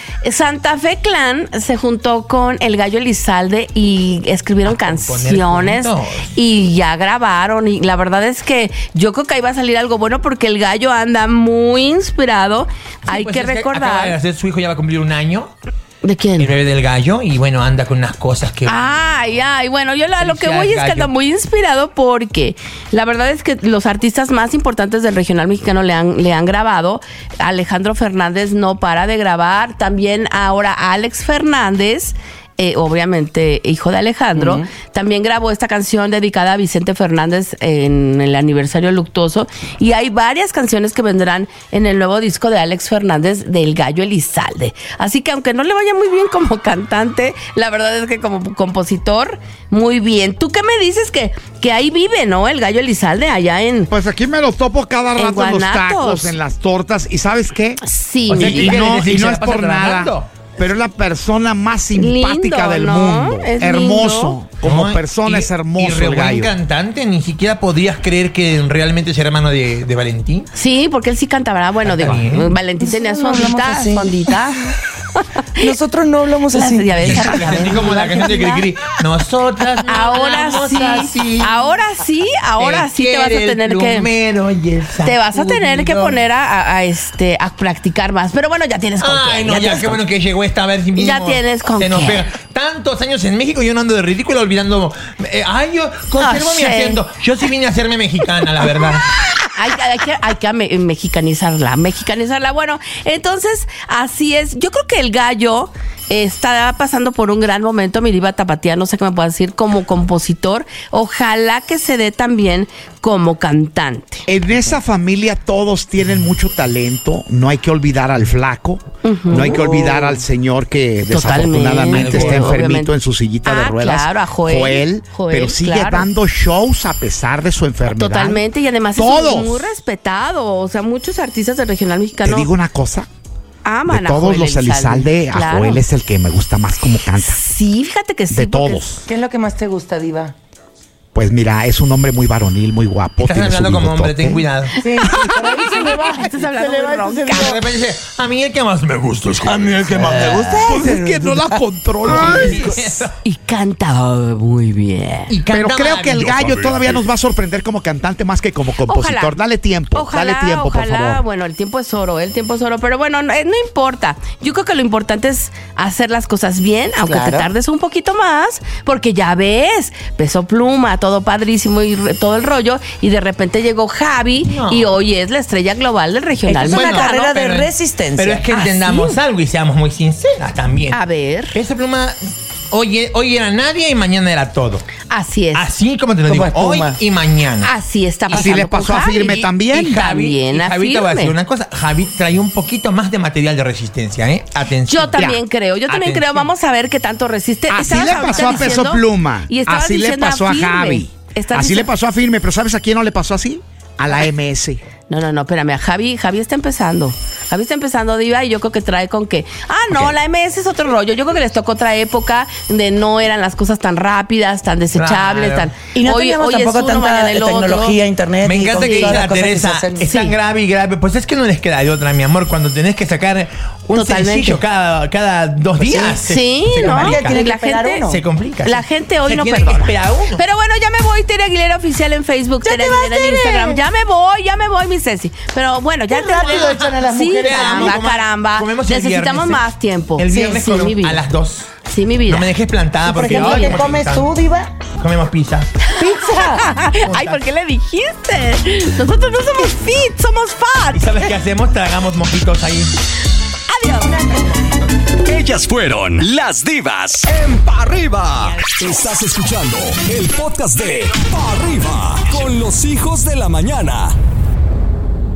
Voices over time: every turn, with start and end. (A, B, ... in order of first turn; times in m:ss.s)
0:00.2-0:14.2 A
0:04.6-0:06.3 B
0:13.0-0:15.5 B
0:16.0-0:16.5 A
0:16.4-0:18.8 B
0:18.6-0:53.9 A
0:20.2-0:21.1 B
0:34.3-0:34.6 C
0:53.9-0:57.8 D
0:55.2-0:56.4 A
0:57.8-0:58.8 A
0:58.3-1:00.3 B
0:58.3-1:06.5 D
1:01.9-1:04.4 A
1:04.6-1:10.5 B
1:10.5-1:15.7 A
1:11.8-1:12.5 B
1:12.8-1:14.3 C
1:15.6-1:17.3 C
1:16.5-1:18.7 A
1:17.0-1:21.6 B
1:19.9-1:24.1 A
1:22.6-1:26.2 B
1:25.0-1:30.0 A
1:29.0-1:39.1 B
1:31.0-1:32.3 A
1:36.2-1:37.0 A
1:39.4-1:54.3 A
1:54.3-2:08.4 D
1:59.0-1:59.6 A
1:59.3-2:00.2 C
2:01.1-2:02.9 A
2:01.9-2:02.6 B
2:03.4-2:06.1 A
2:07.8-2:12.5 A
2:08.9-2:09.7 D
2:12.2-2:13.1 D
2:13.6-2:15.8 A
2:13.9-2:17.4 D
2:17.1-2:19.0 A
2:18.3-2:19.0 D
2:19.0-2:20.3 C
2:21.1-2:24.5 D
2:23.2-2:24.8 B
2:24.8-2:27.6 C
2:24.9-2:27.6 A
2:27.2-2:30.7 B
2:29.4-2:32.7 C
2:30.0-2:32.7 D
2:32.0-2:33.1 B
2:32.2-2:32.7 A
2:33.2-2:35.3 A
2:35.3-2:37.0 B
2:35.5-2:41.2 D
2:38.8-2:39.4 A
2:39.9-2:57.4 A
2:47.0-2:47.5 C
2:54.4-2:54.9 B
2:56.4-2:58.5 C
2:56.6-3:01.0 B
2:58.5-2:59.2 A
3:00.9-3:01.6 A
3:01.5-3:04.9 B
3:05.1-3:05.7 A
3:05.5-3:07.7 B
3:06.2-3:07.0 C
3:07.6-3:11.3 A
3:08.3-3:08.7 B
3:08.3-3:10.0 D
3:09.7-3:15.3 B
3:14.9-3:21.9 A
3:15.9-3:16.5 B
3:17.7-3:24.8 D
3:18.1-3:18.7 B
3:25.1-3:38.0 A
3:34.9-3:35.7 B
3:35.9-3:40.2 C
3:38.4-3:47.4 B
3:38.7-3:39.2 A
3:40.0-3:40.3 A
3:43.9-3:44.6 A
3:45.8-3:46.2 C
3:46.2-3:48.1 A
3:46.8-3:48.2 C
3:48.0-3:50.4 B
3:48.6-4:01.2 A
3:52.6-3:53.8 C
3:56.1-3:58.0 C
3:56.3-4:01.7 B
4:00.3-4:00.7 C
4:01.8-4:02.5 A
4:02.3-4:04.3 B
4:03.0-4:04.7 C
4:03.2-4:03.8 A
4:05.0-4:05.7 B
4:05.8-4:11.1 A
4:06.0-4:06.7 C
4:06.8-4:07.4 B
4:10.9-4:12.9 B
4:13.7-4:14.2 A
4:14.0-4:14.7 C
4:15.2-4:24.2 E